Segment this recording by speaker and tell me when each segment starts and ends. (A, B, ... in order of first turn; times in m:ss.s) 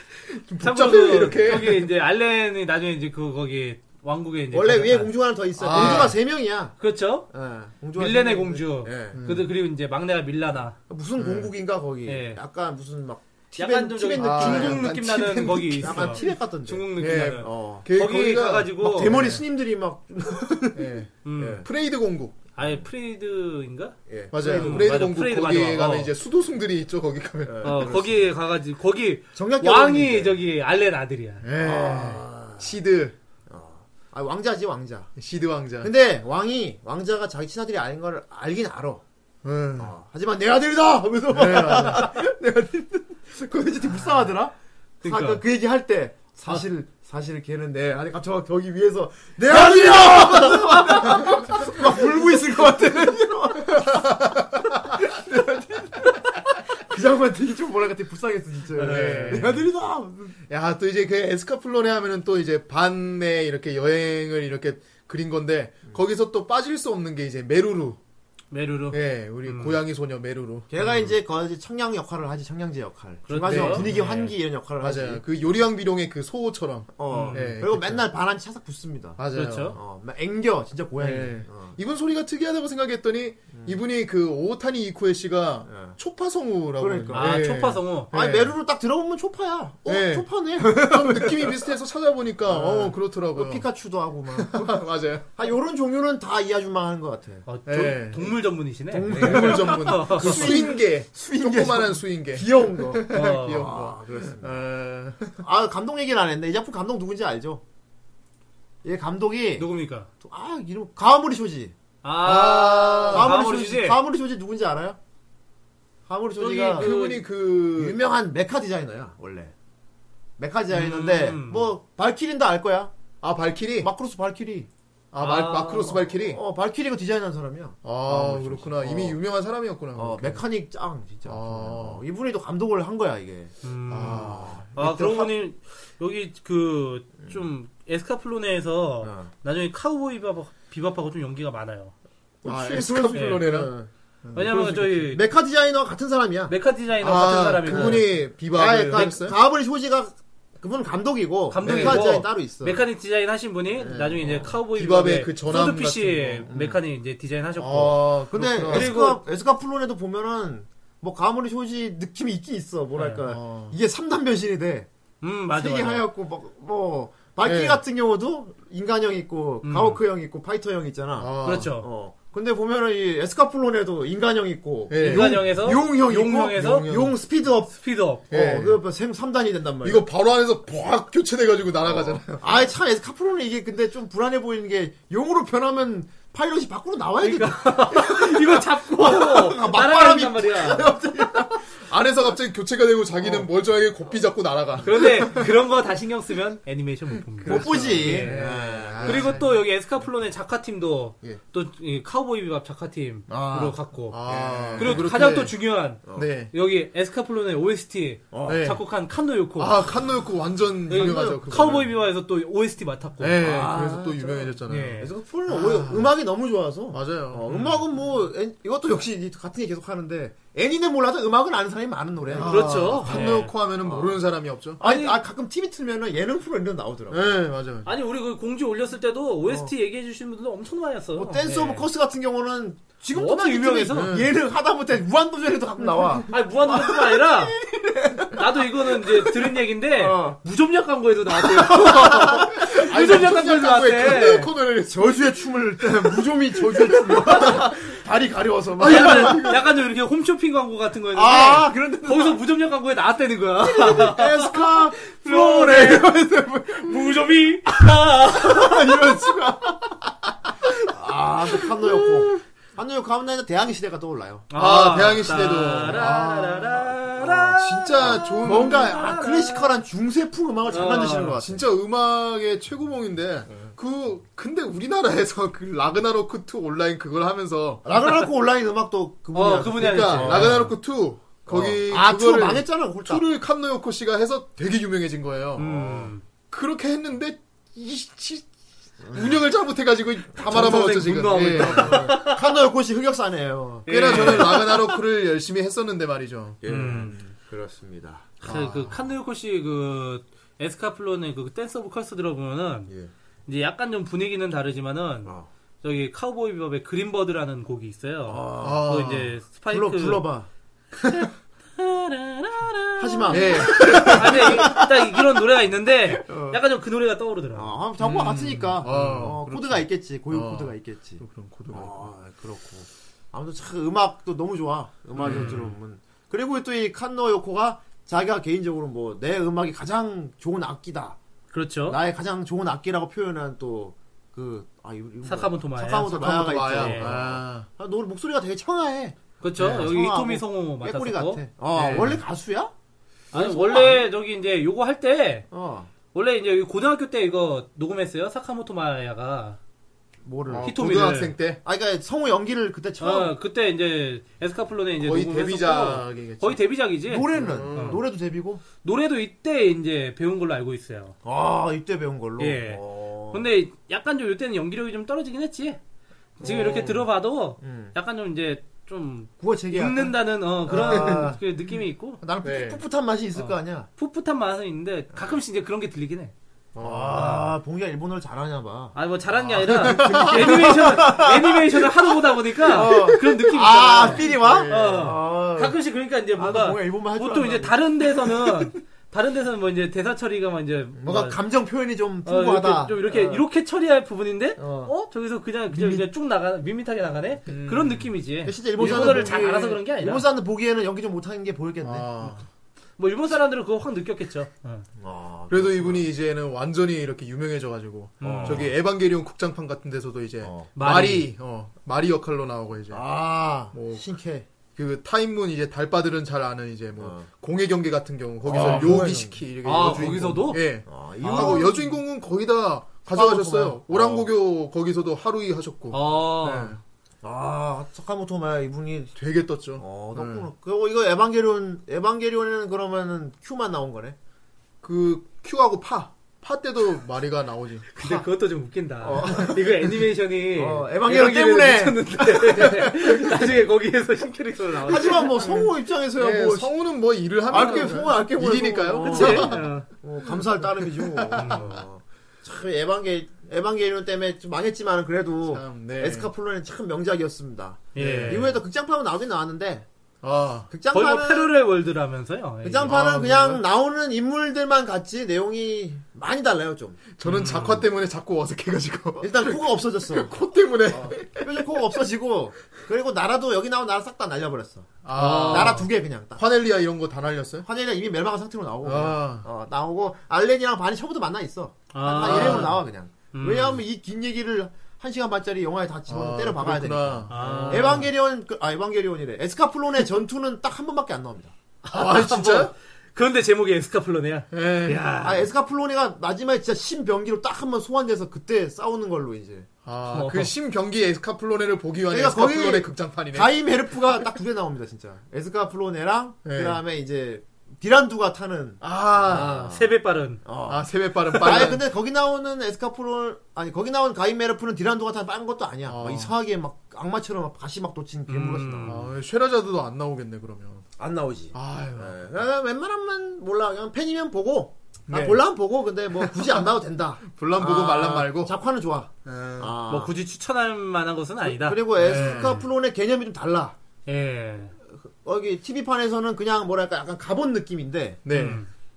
0:00.3-0:01.9 A
0:00.6-0:05.1 B
0:04.5-0:06.8 C
0:05.6-0:06.2 A
0:05.7-0:06.1 B
0:06.8-0:07.3 B
0:07.3-0:09.2 C
0:08.0-0:10.8 B
0:09.1-0:09.4 A
0:10.9-0:15.0 C
0:11.2-0:11.5 A
0:12.0-0:12.4 B
0:13.5-0:19.2 B
0:14.1-0:16.3 A
0:15.8-0:17.9 C
0:17.0-0:19.4 A
0:18.7-0:21.6 C
0:20.7-0:22.4 A
0:21.2-0:21.6 B
0:22.6-0:26.1 B
0:24.1-0:25.0 C
0:24.3-0:27.9 A
0:27.4-0:28.3 C
0:27.6-0:31.4 B
0:29.3-0:30.4 C
0:31.4-0:33.1 A
0:31.6-0:32.7 C
0:33.5-0:35.1 C
0:35.2-0:35.9 A
0:35.8-0:39.0 C
0:39.4-0:39.9 A
0:39.8-1:00.4 C
0:41.3-0:42.1 A
0:45.0-0:45.4 B
0:49.5-0:50.3 A
0:50.4-0:51.0 B
0:51.2-0:51.8 A
0:53.7-0:54.6 A
0:58.8-0:59.6 B
0:58.8-0:59.6 A
1:00.5-1:08.0 A
1:08.5-1:09.8 B
1:08.9-1:11.1 A
1:10.7-1:15.2 C
1:13.3-1:13.9 B
1:13.5-1:18.0 A
1:17.0-1:21.8 C
1:17.1-1:17.5 B
1:19.2-1:19.8 A
1:19.3-1:19.8 B
1:21.0-1:28.5 A
1:23.5-1:23.8 C
1:25.6-1:26.0 C
1:26.8-1:27.4 C
1:27.1-1:28.1 B
1:28.1-1:31.7 C
1:29.8-1:33.6 A
1:32.4-1:37.4 C
1:34.3-1:35.3 A
1:37.4-1:40.6 B
1:37.7-1:38.3 A
1:38.9-1:44.6 C
1:39.1-1:45.4 A
1:43.1-1:43.7 B
1:45.4-1:47.6 C
1:48.8-1:49.7 C
1:49.6-1:50.1 B
1:50.2-1:51.7 C
1:52.0-1:54.0 B
1:52.2-1:53.3 A
1:53.1-1:55.0 C
1:56.1-1:56.9 C
1:56.4-1:58.0 A
1:56.7-1:57.2 B
1:57.7-1:59.5 C
2:00.4-2:02.9 C
2:00.7-2:01.7 B
2:03.2-2:03.9 A
2:03.8-2:04.7 C
2:05.1-2:06.4 A
2:05.2-2:06.0 B
2:06.1-2:09.2 C
2:07.8-2:10.4 A
2:10.0-2:13.5 C
2:11.3-2:12.0 A
2:13.6-2:21.9 B
2:13.9-2:15.3 A
2:14.1-2:14.6 C
2:19.0-2:19.3 C
2:22.4-2:23.9 C
2:22.4-2:23.7 A
2:23.1-2:23.4 B
2:24.2-2:24.6 A
2:24.3-2:25.2 B
2:24.4-2:26.5 C
2:26.5-2:28.0 B
2:27.0-2:29.3 A
2:27.6-2:32.8 C
2:31.5-2:38.1 B
2:31.6-2:32.2 A
2:33.7-2:34.4 C
2:34.2-2:36.5 A
2:36.5-2:36.8 C
2:37.6-2:38.9 A
2:38.3-2:44.9 C
2:38.6-2:39.2 B
2:43.3-2:43.7 A
2:45.2-2:46.0 B
2:45.5-2:57.7 C
2:47.4-2:47.8 A
2:49.6-2:50.0 B
2:51.2-2:51.7 A
2:51.4-2:51.9 B
2:54.9-2:55.5 A
2:55.0-2:56.9 B
2:56.5-2:57.1 A
2:57.7-2:58.2 B
2:58.3-3:00.0 C
2:58.3-2:58.8 A
2:59.8-3:02.5 A
3:01.9-3:11.6 C
3:07.2-3:11.0 B
3:11.8-3:15.5 A
3:14.8-3:18.4 B
3:17.4-3:19.5 A
3:17.4-3:19.4 C
3:19.0-3:24.2 B
3:23.3-3:25.1 C
3:24.1-3:26.5 A
3:24.7-3:29.8 B
3:26.0-3:26.3 C
3:28.3-3:28.8 C
3:28.5-3:28.8 A
3:29.6-3:31.9 A
3:30.9-3:33.4 B
3:30.9-3:31.8 C
3:33.2-3:36.1 A
3:33.4-3:44.2 C
3:34.7-3:35.1 B
3:36.9-3:37.5 A
3:42.3-3:44.8 A
3:42.4-3:43.5 B
3:44.8-3:47.3 C
3:44.8-3:45.2 B
3:47.1-3:47.9 A
3:47.8-3:51.9 B
3:49.5-3:49.7 C
3:51.2-4:00.4 C
3:53.1-3:54.1 B
3:53.9-3:54.3 A
3:56.3-3:57.5 B
3:58.3-4:04.5 B
4:01.3-4:02.7 C
4:02.6-4:05.2 A
4:04.9-4:09.6 C
4:06.7-4:07.7 A
4:07.2-4:07.5 B
4:08.8-4:09.6 A
4:08.8-4:16.1 B
4:11.1-4:12.4 C
4:13.6-4:17.2 C
4:16.8-4:18.7 B
4:17.7-4:20.1 C
4:18.8-4:19.4 A
4:20.6-4:24.5 C
4:24.5-4:29.7 B
4:24.6-4:28.9 A
4:28.0-4:31.7 C
4:30.7-4:31.4 B
4:31.4-4:37.8 A
4:37.8-4:40.7 C
4:39.3-4:40.5 B
4:39.8-4:48.5 A
4:41.5-4:43.2 C
4:45.6-4:46.2 B
4:49.0-4:49.4 C
4:49.0-4:52.3 A
4:50.3-4:54.8 C
4:50.5-4:52.4 B
4:53.9-4:54.9 B
4:53.9-4:57.0 A
4:56.6-4:58.5 C
4:56.6-4:57.1 B
4:58.4-5:02.9 B
4:58.4-4:59.0 A
5:03.5-5:10.3 B
5:05.2-5:05.5 C
5:08.2-5:08.9 C
5:08.6-5:09.3 A
5:09.7-5:11.2 C
5:10.9-5:17.8 B
5:13.0-5:15.2 C
5:13.3-5:14.7 A
5:16.1-5:16.6 C
5:17.5-5:31.2 C
5:18.0-5:22.1 A
5:25.2-5:25.7 A
5:25.2-5:25.7 B
5:31.5-5:32.0 B
5:31.9-5:42.7 C
5:35.2-5:37.1 B
5:36.0-5:37.7 A
5:39.4-5:41.4 B
5:39.6-5:39.9 A
5:41.7-5:42.2 A
5:43.3-5:44.1 C
5:43.3-5:45.5 B
5:45.5-5:45.9 C
5:46.1-5:49.6 B
5:50.2-5:50.9 C
5:50.5-5:51.6 A
5:50.6-5:51.3 B
5:51.6-5:53.3 C
5:53.0-5:58.0 B
5:55.0-5:56.6 A
5:57.0-5:58.6 C
5:57.3-5:58.0 A
5:58.8-6:01.1 B
6:01.2-6:03.5 C
6:02.4-6:05.8 B
6:06.4-6:12.2 B
6:06.4-6:07.1 C
6:07.6-6:07.9 C
6:09.4-6:11.4 C
6:10.9-6:11.2 A
6:12.2-6:13.9 C
6:12.4-6:12.8 A
6:13.4-6:16.3 B
6:16.7-6:17.4 A
6:16.8-6:19.0 C
6:17.1-6:17.4 B
6:18.9-6:31.4 B
6:19.5-6:20.7 A
6:19.5-6:25.8 C
6:24.0-6:25.1 A
6:26.3-6:27.8 C
6:31.0-6:33.4 C
6:32.2-6:40.2 B
6:34.6-6:34.9 C
6:35.7-6:36.1 C
6:37.5-6:38.1 A
6:38.4-6:42.3 C
6:38.8-6:39.2 A
6:41.8-6:42.4 A
6:43.0-6:44.8 B
6:45.0-6:46.1 C
6:45.5-6:53.0 A
6:48.2-6:48.6 B
6:48.2-6:48.7 C
6:50.4-6:50.7 C
6:50.7-6:51.3 B
6:52.9-6:54.5 C
6:53.7-6:54.0 A
6:54.7-7:06.8 A
6:57.0-6:57.2 C
6:58.4-7:00.1 C
6:58.5-6:59.1 B
6:59.6-7:00.6 B
7:00.8-7:02.0 C
7:01.2-7:01.6 B
7:03.1-7:04.3 C
7:05.9-7:06.8 B
7:07.2-7:09.1 C
7:09.2-7:10.4 A
7:09.8-7:14.2 C
7:14.8-7:17.9 A
7:17.9-7:25.4 B
7:18.0-7:18.2 C
7:19.0-7:19.8 C
7:20.5-7:23.6 C
7:24.8-7:26.7 C
7:25.4-7:29.6 A
7:27.5-7:39.9 C
7:29.0-7:29.9 B
7:31.0-7:31.8 A
7:31.3-7:31.7 B
7:35.5-7:36.3 A
7:37.9-7:38.5 B
7:38.0-7:38.4 A
7:40.2-7:40.7 A
7:40.7-7:41.5 C
7:40.9-7:42.9 B
7:42.6-7:47.1 C
7:42.8-7:43.6 A
7:47.2-7:51.7 A
7:47.2-7:47.8 B
7:49.2-7:56.4 C
7:55.0-7:57.6 A
7:55.2-7:55.8 B
7:57.6-8:11.5 C
7:58.8-7:59.4 A
8:01.9-8:02.7 B
8:02.2-8:02.8 A
8:03.3-8:03.8 B
8:06.1-8:08.0 A
8:07.3-8:08.0 B
8:11.8-8:15.4 B
8:11.9-8:12.7 A
8:14.5-8:15.0 A
8:15.2-8:19.7 C
8:19.8-8:23.6 A
8:20.1-8:20.5 B
8:22.1-8:29.9 C
8:26.4-8:26.8 A
8:28.8-8:29.7 A
8:29.3-8:30.4 B
8:30.4-8:39.0 C
8:30.7-8:31.8 A
8:35.8-8:36.3 A
8:38.3-8:39.0 B
8:38.8-8:40.8 A
8:41.0-8:50.1 C
8:41.5-8:42.2 A
8:45.1-8:45.4 A
8:46.2-8:46.6 A
8:47.2-8:48.5 A
8:49.2-8:49.7 A
8:49.9-8:52.6 B
8:51.4-8:53.8 C
8:52.0-8:52.6 A
8:54.0-8:54.7 B
8:54.9-8:58.2 C
8:58.2-8:58.6 A
8:58.3-8:58.7 B